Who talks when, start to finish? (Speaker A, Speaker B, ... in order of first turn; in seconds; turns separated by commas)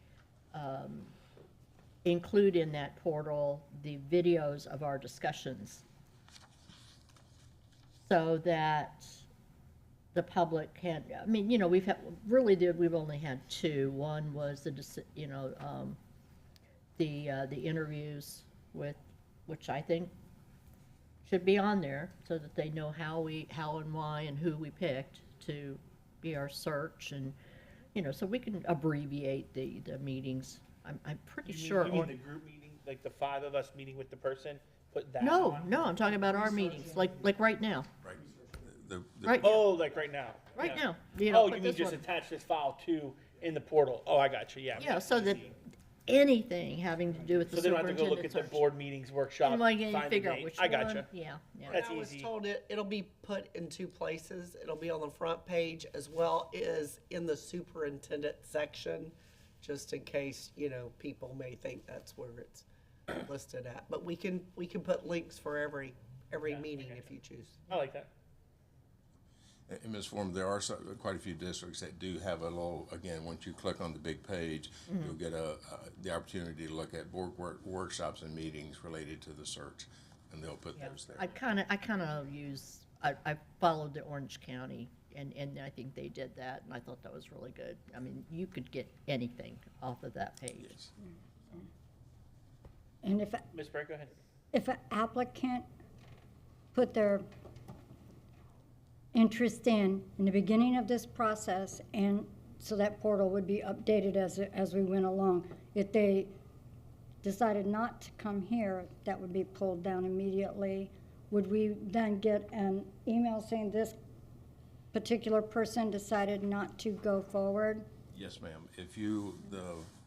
Speaker A: 0.5-1.1, Speaker A: 2.0-5.8, Speaker A: 8.0-9.2, Speaker A: 10.1-16.0, Speaker A: 17.0-20.1, Speaker A: 21.2-27.4, Speaker A: 27.9-32.1, Speaker B: 31.5-35.9, Speaker A: 35.2-37.9, Speaker C: 38.0-39.5, Speaker A: 39.2-39.7, Speaker B: 39.4-45.5, Speaker A: 40.5-42.0, Speaker A: 44.8-45.5, Speaker A: 46.1-48.7, Speaker B: 47.5-51.1, Speaker A: 49.4-51.8, Speaker B: 51.7-52.3, Speaker D: 51.7-67.7, Speaker B: 66.5-67.1, Speaker B: 67.7-68.1, Speaker C: 69.7-81.4, Speaker A: 74.9-75.2, Speaker A: 80.8-90.8, Speaker C: 90.6-90.9, Speaker E: 93.0-93.5, Speaker B: 93.5-94.1, Speaker E: 94.5-95.7, Speaker E: 96.7-97.2, Speaker E: 99.1-106.4, Speaker E: 107.2-114.0, Speaker E: 114.9-117.9, Speaker C: 118.1-119.9